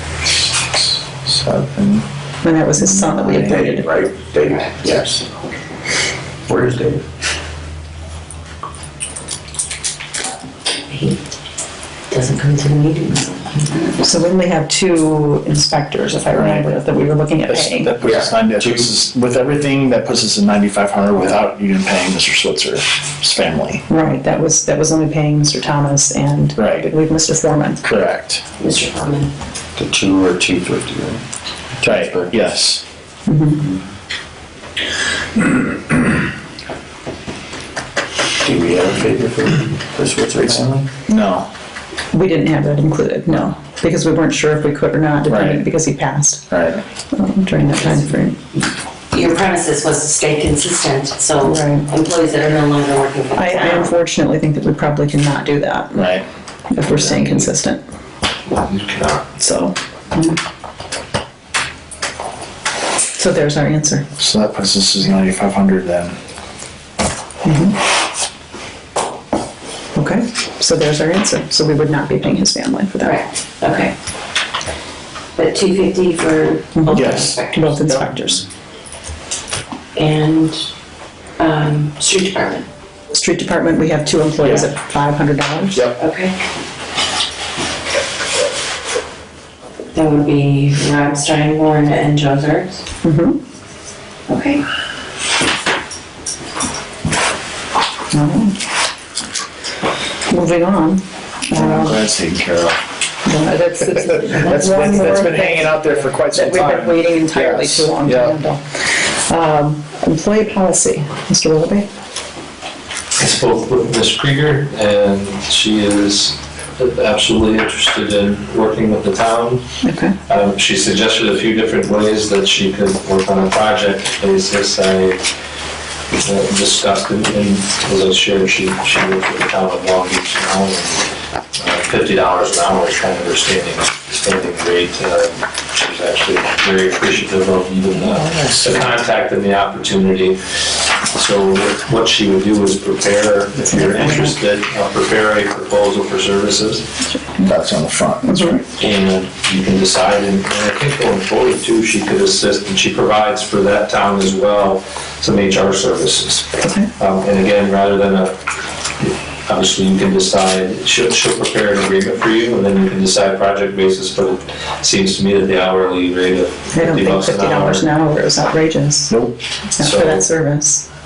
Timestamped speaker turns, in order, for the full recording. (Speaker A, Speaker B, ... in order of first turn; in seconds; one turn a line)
Speaker A: 0.6-2.0
Speaker B: 2.4-3.9
Speaker A: 2.7-3.7
Speaker C: 3.5-5.2
Speaker C: 6.5-7.0
Speaker D: 10.8-11.2
Speaker D: 12.1-14.0
Speaker B: 14.0-17.9
Speaker A: 16.3-16.7
Speaker A: 17.5-23.8
Speaker C: 18.0-18.9
Speaker B: 23.9-27.8
Speaker A: 26.6-26.9
Speaker A: 27.8-28.4
Speaker D: 28.6-29.3
Speaker C: 29.8-31.2
Speaker C: 31.8-32.3
Speaker A: 31.8-32.8
Speaker B: 33.3-33.6
Speaker C: 38.4-40.9
Speaker A: 41.1-41.5
Speaker B: 42.1-46.5
Speaker A: 45.2-45.7
Speaker A: 46.5-46.8
Speaker B: 47.1-48.4
Speaker D: 47.7-48.1
Speaker D: 49.1-53.9
Speaker B: 51.4-51.9
Speaker B: 53.4-56.1
Speaker A: 55.9-56.2
Speaker B: 56.7-57.8
Speaker D: 56.8-57.5
Speaker E: 58.6-59.2
Speaker B: 59.4-60.4
Speaker B: 63.2-64.0
Speaker A: 64.2-66.2
Speaker B: 67.4-67.8
Speaker B: 70.0-73.2
Speaker D: 73.0-73.9
Speaker D: 75.3-78.0
Speaker B: 76.8-78.4
Speaker A: 76.9-77.3
Speaker D: 80.0-80.7
Speaker D: 81.4-82.7
Speaker B: 83.1-85.9
Speaker A: 84.4-84.7
Speaker D: 86.0-86.3
Speaker D: 89.9-92.8
Speaker B: 93.0-93.4
Speaker D: 94.3-94.6
Speaker B: 98.1-98.5
Speaker B: 100.3-102.0
Speaker A: 101.5-102.8
Speaker B: 103.2-111.9
Speaker A: 104.0-108.3
Speaker E: 113.2-119.6
Speaker B: 119.8-120.2
Speaker E: 120.3-125.2
Speaker E: 126.2-140.4
Speaker A: 138.0-138.9
Speaker E: 141.1-146.8
Speaker B: 143.6-144.3
Speaker B: 147.1-147.5
Speaker A: 147.4-148.6
Speaker B: 148.2-148.6
Speaker E: 148.8-158.3
Speaker B: 156.6-156.9
Speaker E: 159.0-167.9
Speaker B: 166.7-169.2
Speaker B: 169.8-170.8
Speaker E: 169.8-170.3